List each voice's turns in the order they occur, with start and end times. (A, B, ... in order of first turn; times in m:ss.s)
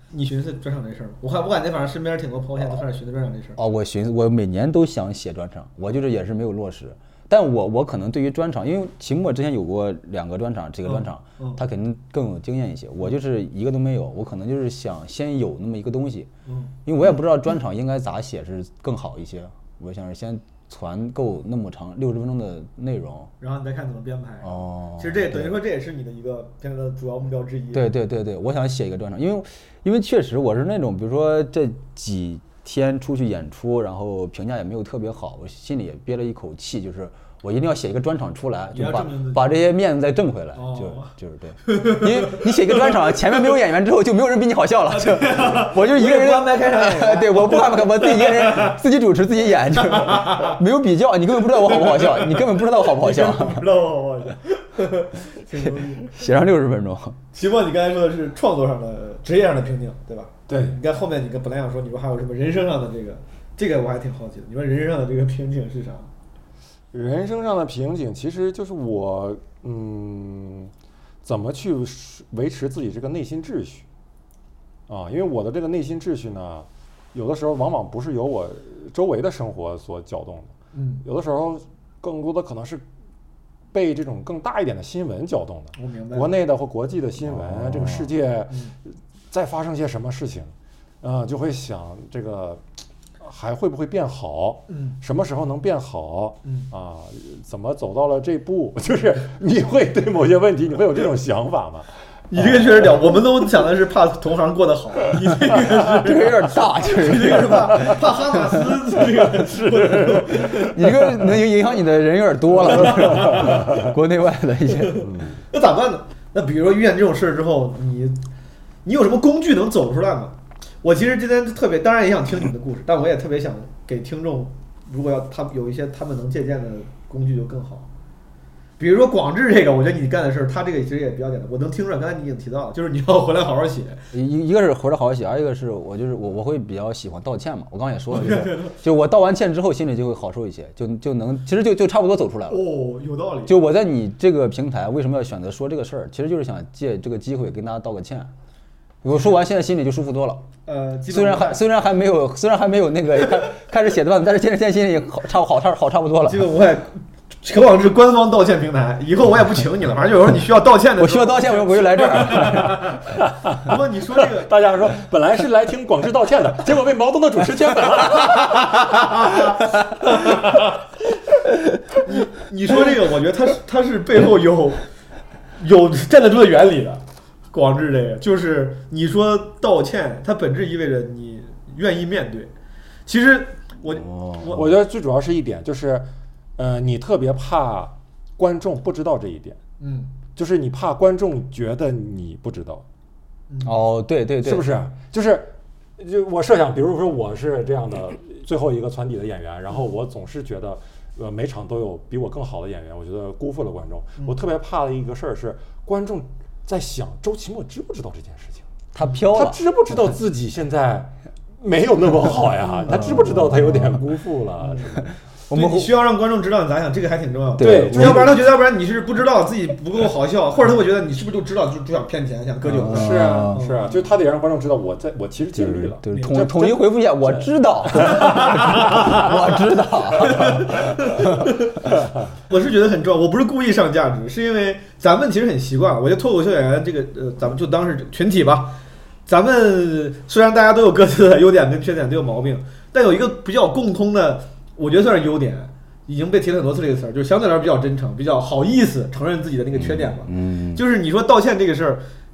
0:00.1-0:03.6 A
0:03.6-0:16.3 B
0:10.8-0:11.6 A
0:16.4-0:16.7 A
0:16.8-0:23.3 B
0:23.4-0:27.9 A
0:24.4-0:25.6 B
0:27.7-0:53.7 B
0:38.7-0:39.6 A
0:40.5-0:41.1 A
0:41.7-0:43.0 A
0:44.9-0:48.8 A
0:49.8-0:50.6 A
0:51.5-0:56.2 A
0:55.6-0:57.2 B
0:57.3-1:06.1 A
1:00.5-1:00.8 C
1:06.9-1:10.7 C
1:11.2-1:13.8 C
1:14.9-1:22.8 C
1:20.7-1:21.0 A
1:23.7-1:32.6 C
1:25.8-1:26.3 A
1:27.4-1:28.1 B
1:33.2-1:42.8 C
1:34.7-1:35.0 A
1:42.3-1:51.4 A
1:45.9-1:48.7 B
1:49.0-1:50.7 C
1:50.4-1:55.0 B
1:52.6-1:53.6 A
1:53.2-1:53.9 C
1:54.8-1:58.2 A
1:55.0-1:55.4 C
1:58.8-2:07.8 A
2:08.8-2:14.0 A
2:14.1-2:22.6 B
2:18.1-2:18.7 A
2:22.5-2:23.6 A
2:23.4-2:28.3 B
2:29.0-2:30.4 B
2:30.6-2:31.6 A
2:31.1-2:36.5 B
2:36.3-2:44.5 A
2:41.0-2:42.8 B
2:42.6-2:49.6 C
2:49.2-2:49.6 A
2:50.2-2:50.7 C
2:52.0-2:54.8 A
2:55.6-3:02.5 A
3:03.0-3:04.6 A
3:04.0-3:04.5 B
3:04.4-3:09.6 C
3:09.8-3:10.1 A
3:10.3-3:12.8 C
3:13.6-3:14.7 B
3:14.4-3:28.6 C
3:28.9-3:29.6 B
3:29.3-3:35.1 C
3:32.9-3:34.0 B
3:35.5-3:35.9 B
3:35.5-3:44.0 A
3:37.6-3:38.3 B
3:37.6-3:38.4 C
3:42.6-3:43.6 B
3:42.8-3:49.3 C
3:45.6-3:51.6 B
3:46.1-3:46.4 A
3:49.0-3:49.3 A
3:50.2-3:51.9 A
3:52.5-4:12.0 A
4:09.7-4:10.8 B